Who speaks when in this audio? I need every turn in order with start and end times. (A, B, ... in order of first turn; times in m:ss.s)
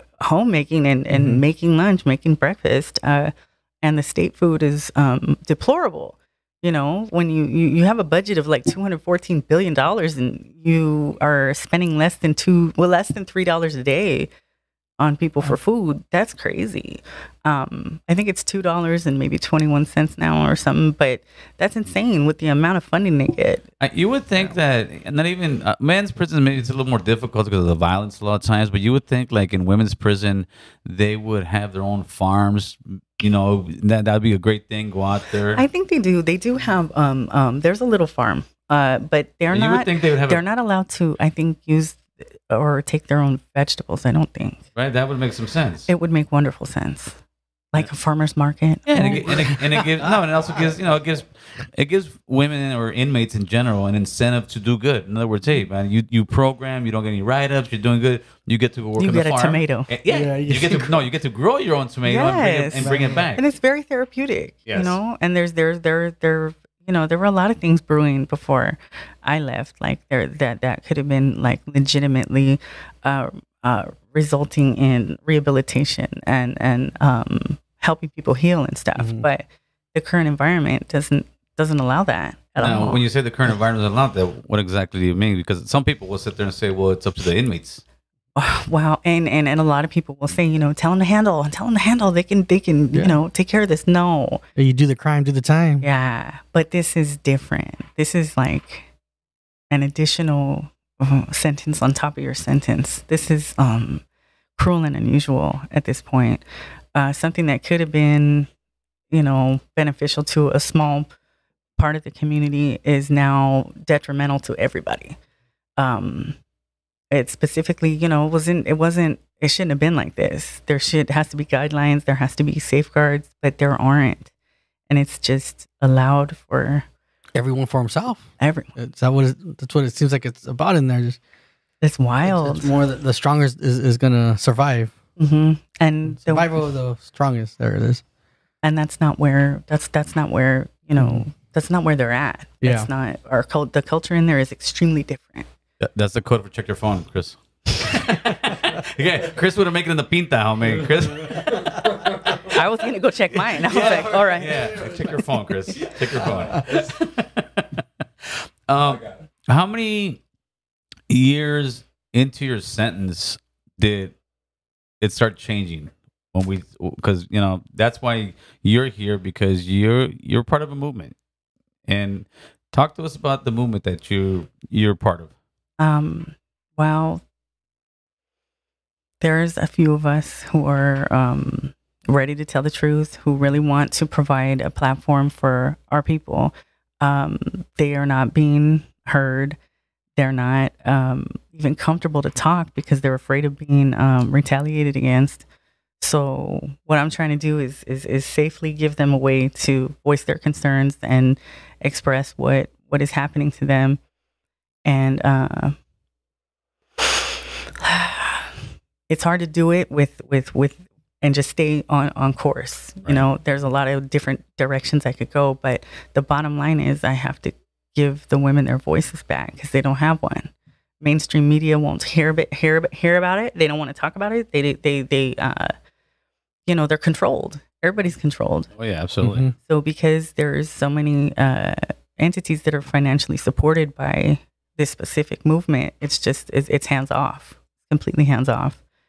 0:00.2-0:14.3 A
0:01.1-0:01.4 B
0:15.0-0:23.6 A
0:23.8-0:35.6 C
0:35.6-0:44.6 A
0:39.5-0:40.4 C
0:44.8-0:45.9 C
0:45.9-0:47.2 A
0:47.7-0:49.3 A
0:48.9-1:03.5 C
0:49.1-0:50.1 B
0:59.0-0:59.9 A
1:00.1-1:00.9 B
1:02.0-1:23.0 A
1:02.8-1:03.3 B
1:04.7-1:05.0 C
1:19.0-1:19.3 B
1:22.6-1:27.8 C
1:28.4-1:34.4 A
1:32.9-1:33.2 B
1:34.6-1:35.8 B
1:35.8-1:38.9 A
1:39.7-1:44.0 A
1:44.6-1:46.4 A
1:47.0-1:48.5 A
1:49.1-1:51.1 A
1:51.8-1:55.2 A
1:55.8-1:56.4 A
1:57.1-2:04.3 A
2:04.9-2:06.8 A
2:07.4-2:11.2 B
2:08.4-2:08.7 A
2:11.8-2:12.8 A
2:12.2-2:15.0 B
2:15.2-2:16.6 A
2:16.1-2:18.0 B
2:18.6-2:25.5 A
2:21.0-2:21.2 B
2:22.6-2:22.9 B
2:25.8-2:32.6 C
2:30.7-2:31.9 B
2:32.5-2:34.7 A
2:33.6-2:40.2 C
2:33.6-2:35.2 B
2:36.2-2:36.8 B
2:41.1-2:44.1 C
2:45.0-2:51.1 C
2:51.9-2:55.3 C
2:55.8-2:57.2 A
2:59.2-3:09.6 A
3:10.2-3:15.4 A
3:16.0-3:24.0 A
3:24.8-3:25.8 A
3:27.8-3:28.6 A
3:29.1-3:45.7 A
3:46.7-3:48.7 A
3:48.8-3:49.5 C
3:49.2-3:49.5 B
3:49.6-3:58.8 A